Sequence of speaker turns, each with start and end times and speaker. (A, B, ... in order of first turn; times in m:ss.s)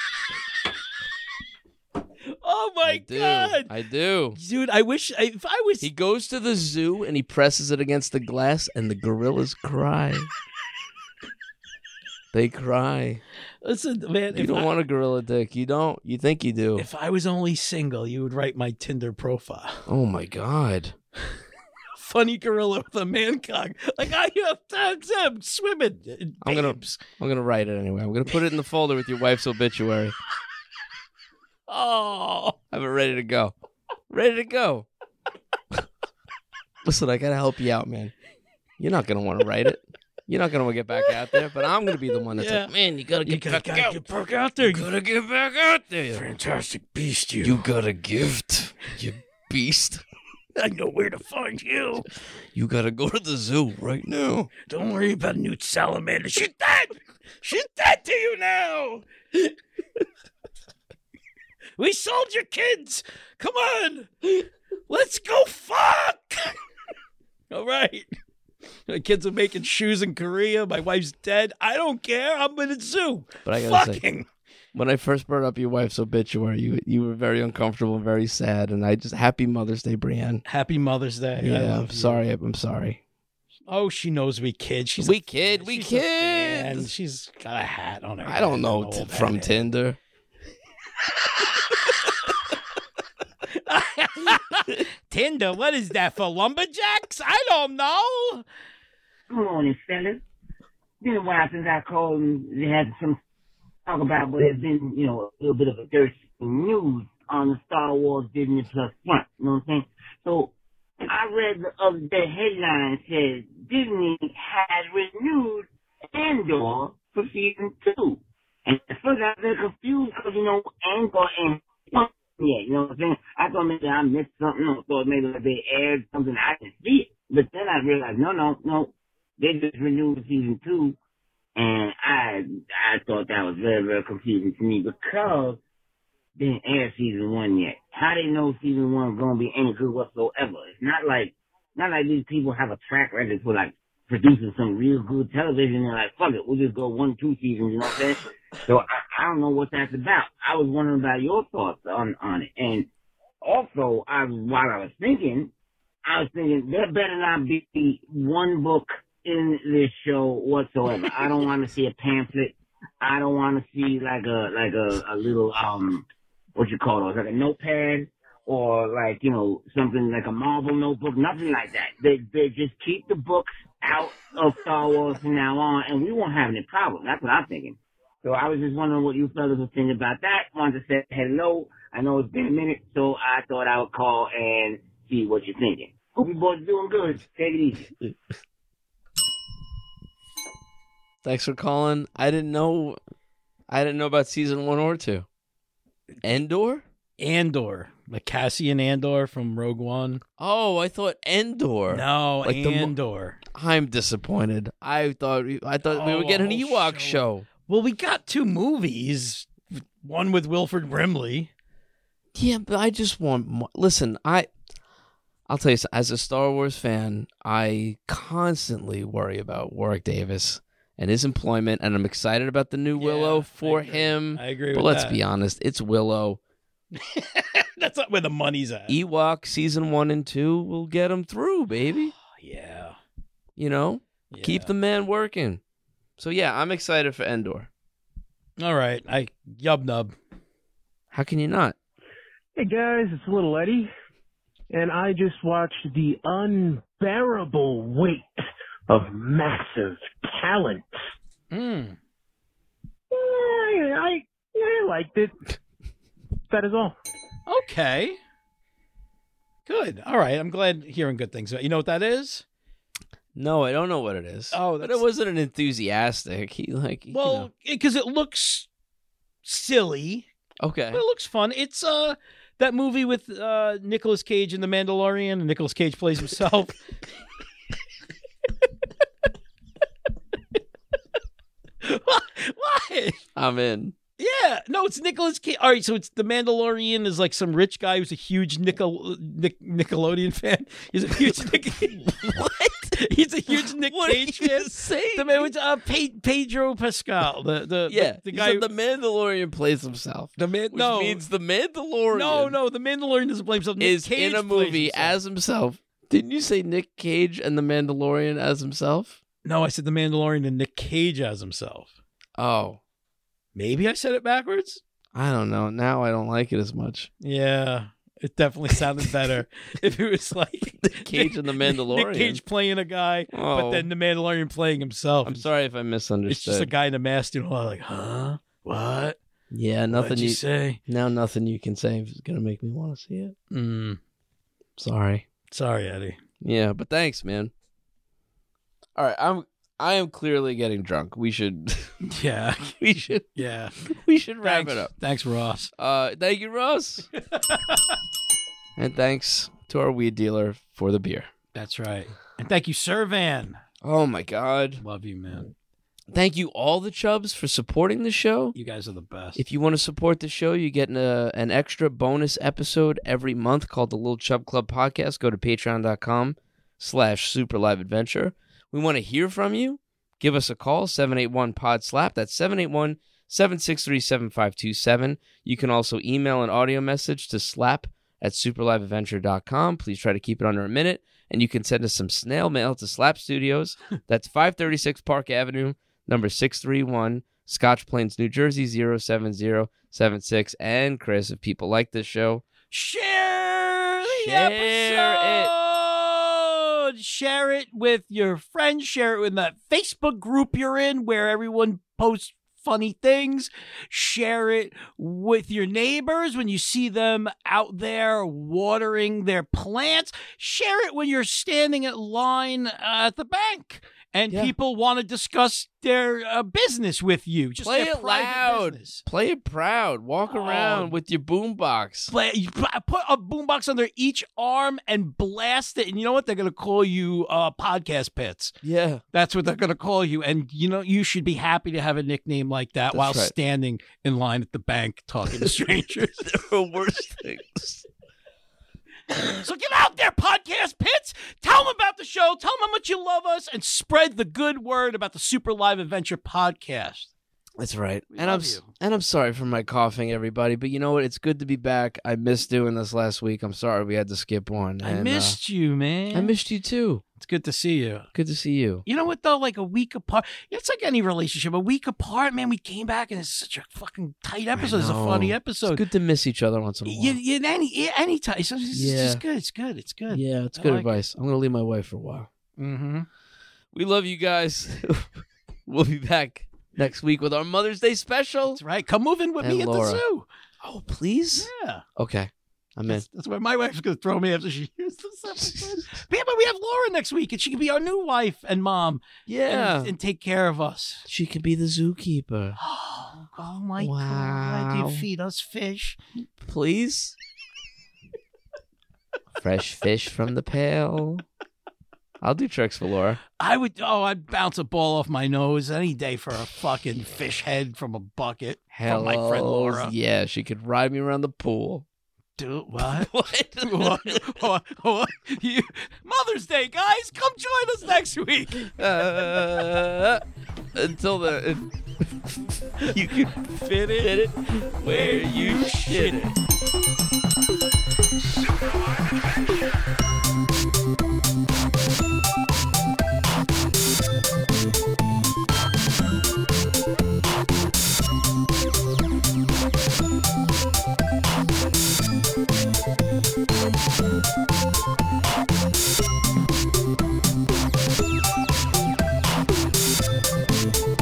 0:02.4-0:03.7 A
0:02.8-0:04.4 B
0:04.3-0:05.9 A
0:05.8-0:10.3 B
0:12.3-0:13.2 B
0:13.6-0:14.7 A
0:14.3-0:16.9 B
0:16.8-0:19.9 A
0:19.9-0:21.0 B
0:22.0-0:27.0 A
0:26.4-0:30.2 B
0:31.7-0:32.6 A
0:32.7-0:33.5 B
0:34.1-0:34.9 B
0:36.8-0:38.1 B
0:38.8-0:44.0 B
0:41.0-0:41.4 A
0:42.2-0:42.7 A
0:43.2-0:44.9 A
0:44.6-0:46.2 B
0:46.1-0:47.6 A
0:47.4-0:50.0 B
0:50.6-0:52.1 A
0:52.5-0:54.5 B
0:54.7-0:59.5 A
1:01.8-1:06.6 A
1:07.5-1:08.1 A
1:08.9-1:14.3 A
1:13.4-1:14.0 B
1:14.7-1:20.4 B
1:20.5-1:22.2 A
1:21.4-1:23.0 B
1:23.7-1:29.7 A
1:25.0-1:26.9 B
1:28.2-1:30.0 B
1:33.5-1:38.4 A
1:39.3-1:40.2 C
1:41.0-1:43.2 C
1:43.9-2:11.0 C
2:11.6-2:15.6 C
2:16.4-2:32.9 C
2:33.4-2:35.5 C
2:36.1-3:07.9 C
3:11.2-3:13.0 B
3:13.7-3:15.3 B
3:16.2-3:16.8 B
3:17.2-3:20.2 A
3:20.4-3:22.9 B
3:21.9-3:23.4 A
3:23.5-3:27.5 B
3:25.8-3:31.5 A
3:32.4-3:34.5 B
3:35.5-3:46.4 B
3:43.0-3:45.2 A
3:46.9-3:49.0 A
3:48.9-3:52.1 B
3:52.2-3:53.0 A
3:53.6-3:55.6 B
3:54.3-3:54.7 A
3:56.2-3:57.7 B
3:58.6-4:00.2 A
4:01.1-4:01.8 B
4:02.6-4:03.9 D
4:04.7-4:10.9 D
4:11.5-4:12.0 A
4:13.1-4:15.6 D
4:16.5-4:17.0 D
4:17.5-4:18.2 A
4:19.7-4:22.4 A
4:23.4-4:27.5 B
4:24.5-4:25.1 A
4:27.1-4:28.7 A
4:29.4-4:30.3 A
4:30.6-4:31.0 B
4:30.9-4:36.8 A
4:41.8-4:43.2 A
4:43.4-4:44.0 B
4:44.2-4:52.4 A
4:52.2-4:53.0 B
4:53.0-4:58.6 A
4:53.5-4:55.5 B
4:57.9-5:02.6 B
5:00.4-5:01.2 A
5:02.1-5:05.2 A
5:03.8-5:09.2 B
5:09.4-5:11.9 A
5:12.4-5:12.8 B
5:13.6-5:14.8 A
5:15.1-5:17.1 B
5:17.2-5:25.5 A
5:20.8-5:22.4 B
5:23.3-5:23.9 B
5:25.2-5:26.7 B
5:26.3-5:29.2 A
5:29.5-5:33.4 B
5:29.9-5:30.8 A
5:33.5-5:34.0 A
5:34.8-5:35.3 B
5:35.5-5:36.2 A
5:36.4-5:37.5 B
5:39.0-5:42.0 B
5:42.0-5:43.8 A
5:42.8-5:43.3 B
5:43.8-5:44.9 B
5:44.4-5:45.7 A
5:45.8-5:47.1 B
5:47.3-5:47.8 A
5:48.8-5:51.3 B
5:51.5-5:53.6 A
5:53.8-5:54.8 B
5:54.8-5:55.5 A
5:56.1-5:58.6 B
5:58.6-5:59.4 A
5:59.4-6:32.4 B
6:32.7-6:59.0 A
6:34.0-6:35.5 B
6:57.6-7:02.1 B
7:00.3-7:00.9 A
7:02.1-7:08.5 A
7:08.6-7:09.0 B
7:09.1-7:16.4 A
7:12.9-7:13.3 B
7:15.4-7:17.9 B
7:19.2-7:27.1 A
7:27.6-7:35.4 B
7:28.1-7:28.7 A
7:34.8-7:36.4 A
7:36.1-7:37.0 B
7:37.2-7:38.1 A
7:38.1-7:38.8 B
7:38.9-7:45.8 A
7:44.6-7:47.2 B
7:46.9-7:51.0 A
7:48.7-7:49.2 B
7:50.1-7:52.3 B
7:52.6-7:53.1 A
7:53.7-7:58.6 B
7:58.5-8:00.3 A
7:59.4-8:00.0 B
8:00.6-8:03.0 B
8:01.4-8:01.8 A
8:02.9-8:11.1 A
8:05.3-8:06.0 B
8:09.3-8:09.9 B
8:11.1-8:12.6 B
8:12.6-8:16.0 A
8:13.8-8:15.0 B
8:16.4-8:17.2 B
8:19.4-8:21.2 B
8:22.2-8:23.2 B
8:23.4-8:29.9 A
8:28.7-8:31.8 B
8:32.4-8:39.1 A
8:32.8-8:34.4 B
8:38.7-8:40.2 B
8:40.8-8:42.1 B
8:42.8-8:46.3 B
8:43.4-8:44.2 A
8:44.8-8:46.4 A